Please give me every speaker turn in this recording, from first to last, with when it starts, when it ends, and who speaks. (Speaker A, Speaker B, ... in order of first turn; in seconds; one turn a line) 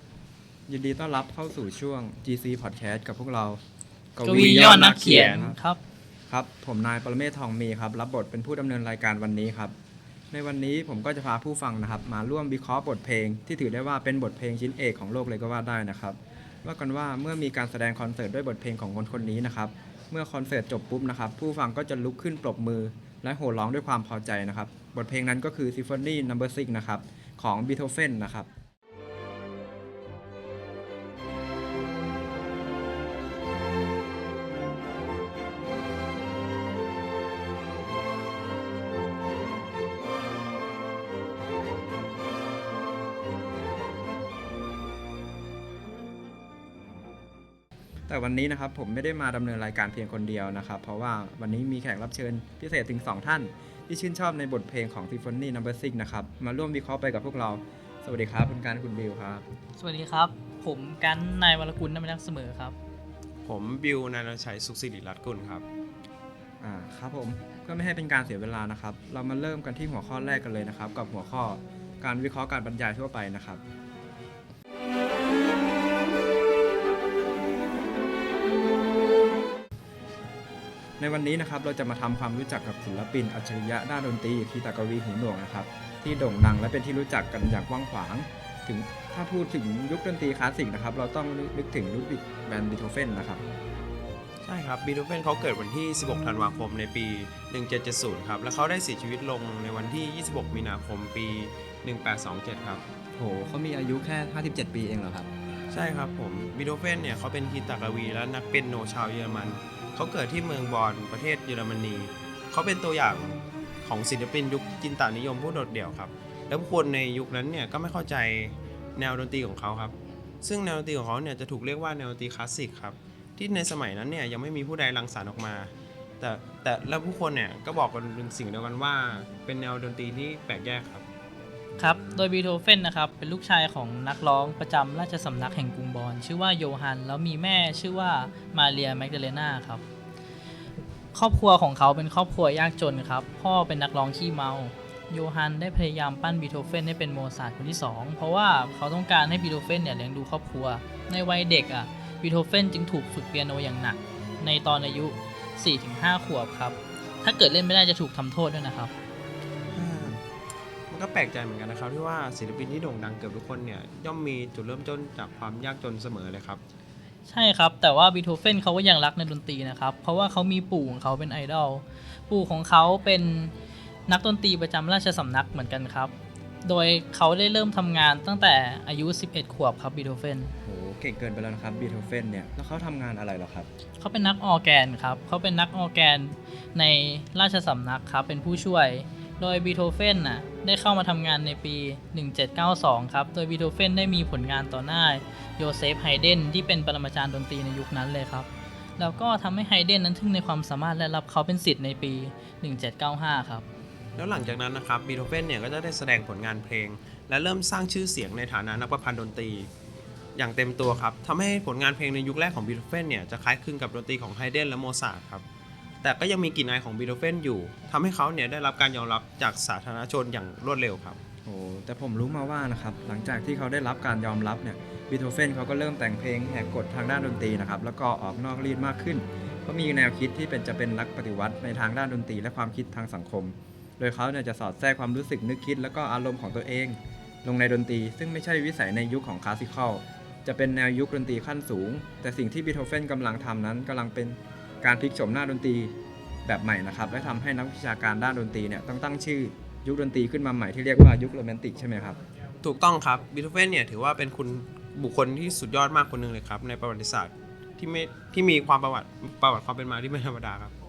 Speaker A: 0.7-3.6
Speaker A: 4.2-5.6
Speaker B: 4.2-5.8
Speaker C: 4.3-5.5
Speaker A: 6.3-9.7
Speaker A: 10.3-28.5
Speaker A: 48.1-59.4
Speaker B: 59.8-62.7
Speaker C: 63.4-65.6
Speaker A: 66.6-73.6
Speaker A: 81.0-93.4
Speaker C: 94.4-102.8
Speaker A: 103.1-105.3
Speaker C: 105.7-131.0
Speaker B: 131.8-139.8
Speaker B: 141.1-158.9
Speaker C: 159.7-160.2
Speaker C: 160.9-166.6
Speaker B: 167.2-173.5
Speaker B: 174.1-176.1
Speaker B: 176.6-180.5
Speaker A: 180.7-183.7
Speaker B: 184.0-203.6
Speaker C: 204.2-209.7
Speaker C: 210.3-215.4
Speaker C: 216.0-221.2
Speaker A: 221.4-245.9
Speaker A: 246.4-252.2
Speaker C: 252.6-260.7